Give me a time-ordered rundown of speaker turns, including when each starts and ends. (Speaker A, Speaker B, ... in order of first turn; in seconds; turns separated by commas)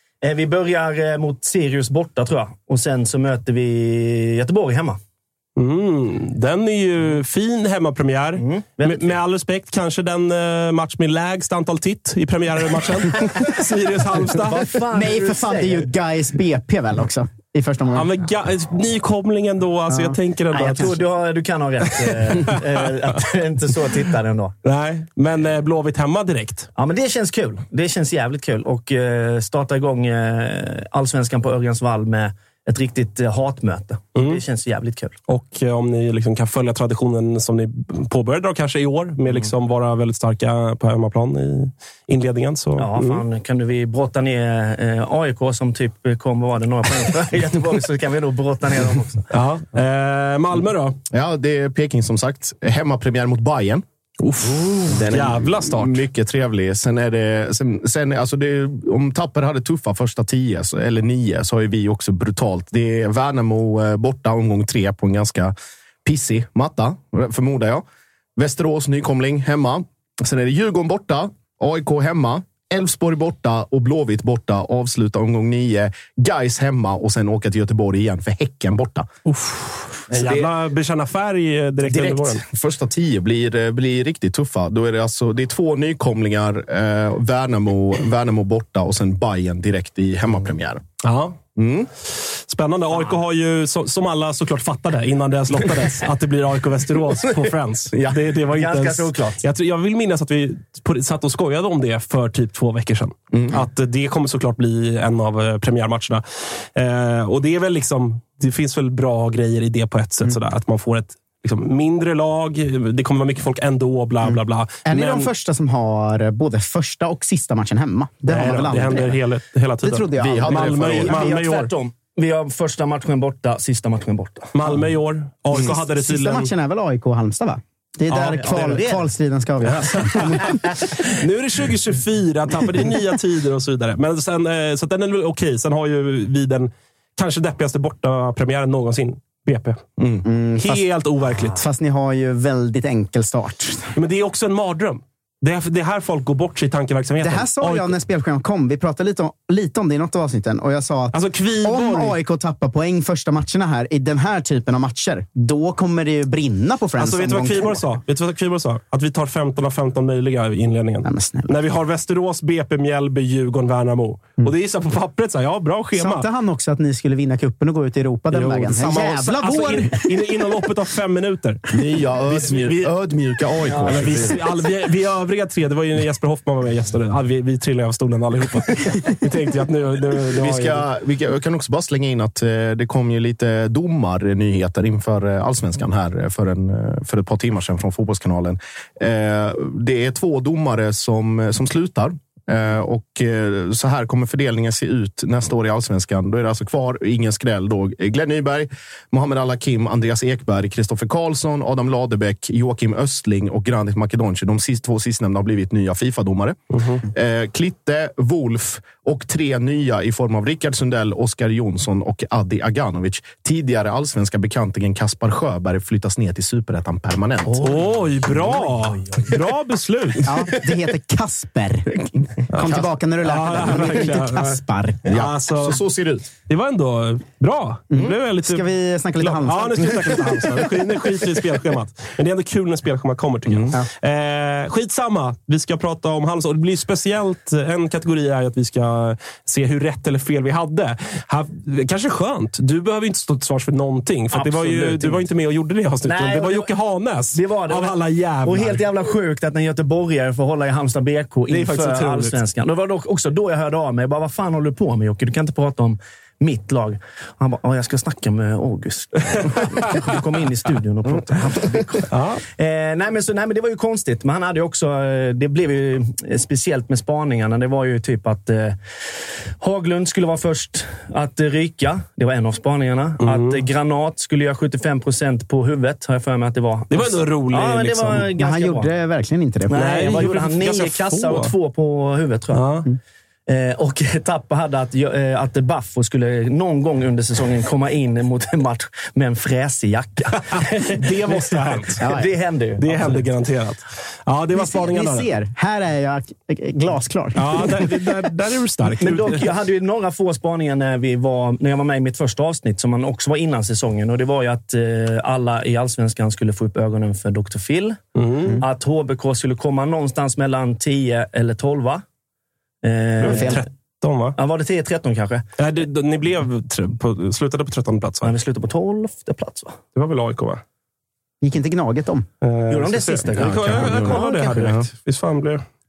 Speaker A: 0.2-5.0, Speaker B: 5.6-14.7, Speaker A: 8.4-9.1, Speaker A: 14.5-15.9, Speaker C: 14.9-18.1, Speaker B: 17.9-21.0, Speaker A: 20.5-24.5, Speaker B: 22.1-22.6, Speaker B: 24.6-26.7, Speaker A: 26.8-35.2, Speaker B: 34.2-34.4, Speaker B: 35.3-43.2, Speaker A: 42.8-49.3, Speaker B: 49.3-51.0, Speaker D: 51.1-53.8, Speaker B: 54.2-56.0, Speaker D: 54.5-65.5, Speaker D: 66.0-67.8, Speaker D: 68.4-79.1, Speaker B: 79.3-82.4, Speaker D: 80.1-80.5, Speaker D: 81.8-90.8, Speaker B: 91.0-91.4, Speaker D: 91.6-91.9, Speaker B: 92.5-115.3, Speaker D: 95.5-95.8, Speaker A: 98.5-99.4, Speaker D: 103.3-103.7, Speaker C: 114.9-119.2, Speaker B: 118.3-121.7, Speaker C: 119.8-121.1, Speaker D: 120.2-121.2, Speaker A: 121.0-124.5, Speaker B: 124.5-126.5, Speaker C: 125.5-130.7, Speaker A: 128.1-129.0, Speaker B: 128.3-128.8, Speaker B: 129.9-139.8, Speaker D: 140.0-140.2, Speaker C: 140.2-140.9, Speaker B: 140.6-141.6, Speaker C: 141.4-143.9, Speaker B: 144.0-147.9, Speaker C: 147.2-157.9, Speaker B: 151.1-152.2, Speaker B: 157.0-166.3, Speaker C: 161.1-161.5, Speaker C: 166.0-170.5, Speaker B: 168.3-171.7, Speaker D: 171.7-174.4, Speaker B: 172.3-172.9, Speaker A: 173.7-174.0, Speaker B: 173.7-180.8, Speaker D: 180.4-217.7, Speaker A: 217.5-219.3, Speaker B: 217.6-220.3, Speaker C: 220.2-221.9, Speaker D: 221.9-222.9, Speaker B: 222.5-225.8, Speaker C: 222.6-225.2, Speaker D: 223.6-224.0, Speaker D: 225.1-226.3, Speaker B: 226.5-248.8, Speaker C: 227.9-231.2, Speaker A: 244.3-245.2, Speaker A: 246.0-246.7, Speaker A: 247.3-268.8, Speaker B: 251.5-252.3, Speaker B: 262.1-262.4, Speaker A: 269.6-278.9, Speaker B: 273.2-273.6, Speaker B: 276.9-278.3, Speaker C: 278.4-280.2, Speaker A: 279.7-282.6, Speaker B: 279.7-281.5, Speaker B: 282.5-282.9, Speaker A: 283.5-292.9, Speaker B: 290.9-292.0, Speaker C: 292.0-292.3, Speaker B: 292.8-295.3, Speaker C: 292.8-293.2, Speaker C: 294.5-298.2, Speaker B: 297.4-299.4, Speaker A: 299.0-308.0, Speaker B: 308.2-308.6, Speaker A: 308.6-312.0, Speaker A: 312.8-313.6, Speaker B: 313.2-314.4, Speaker C: 313.2-313.6, Speaker A: 314.4-315.4, Speaker B: 315.6-318.3, Speaker A: 318.2-319.8, Speaker B: 320.0-320.6, Speaker C: 321.4-322.3, Speaker B: 322.4-325.6, Speaker A: 322.7-324.8, Speaker D: 323.4-324.2